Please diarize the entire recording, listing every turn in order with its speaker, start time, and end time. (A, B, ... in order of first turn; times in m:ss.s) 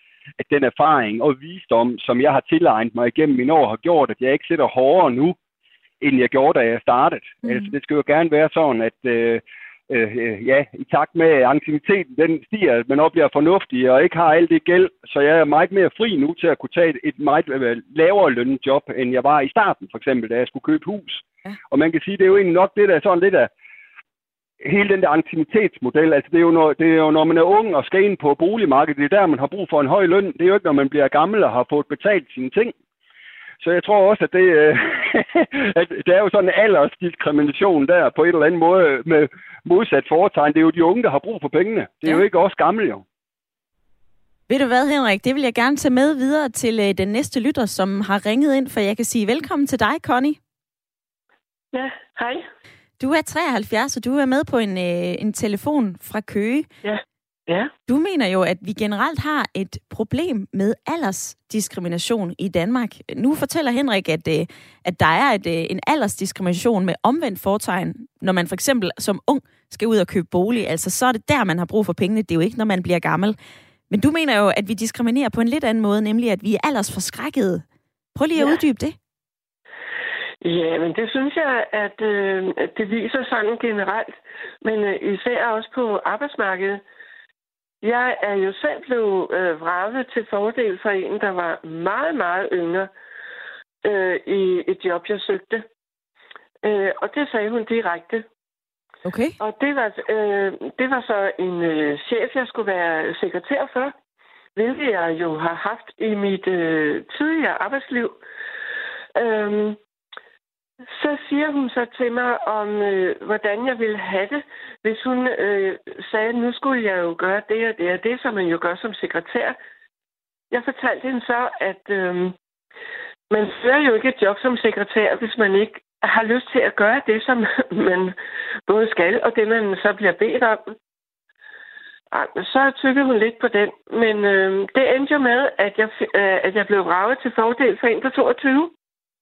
0:00.4-0:05.4 A
0:06.0-0:23.5 A
0:07.4-0:07.7 B
0:24.6-0:32.7 A
0:33.6-0:43.0 A
0:44.5-0:50.4 B
0:51.7-0:52.4 C
0:53.0-0:56.7 B
0:56.8-0:57.7 C
0:57.9-1:13.4 B
1:13.9-1:17.6 B
1:18.2-1:19.0 B
1:20.4-1:26.8 C
1:27.8-1:32.9 C
1:33.8-1:35.6 C
1:36.6-1:38.2 C
1:39.0-1:39.4 B
1:39.4-1:44.0 C
1:44.6-1:48.2 C
1:49.1-1:49.8 C
1:50.8-1:59.6 C
2:00.5-2:02.4 C
2:03.3-2:08.1 C
2:08.7-2:10.7 C
2:12.1-2:18.7 C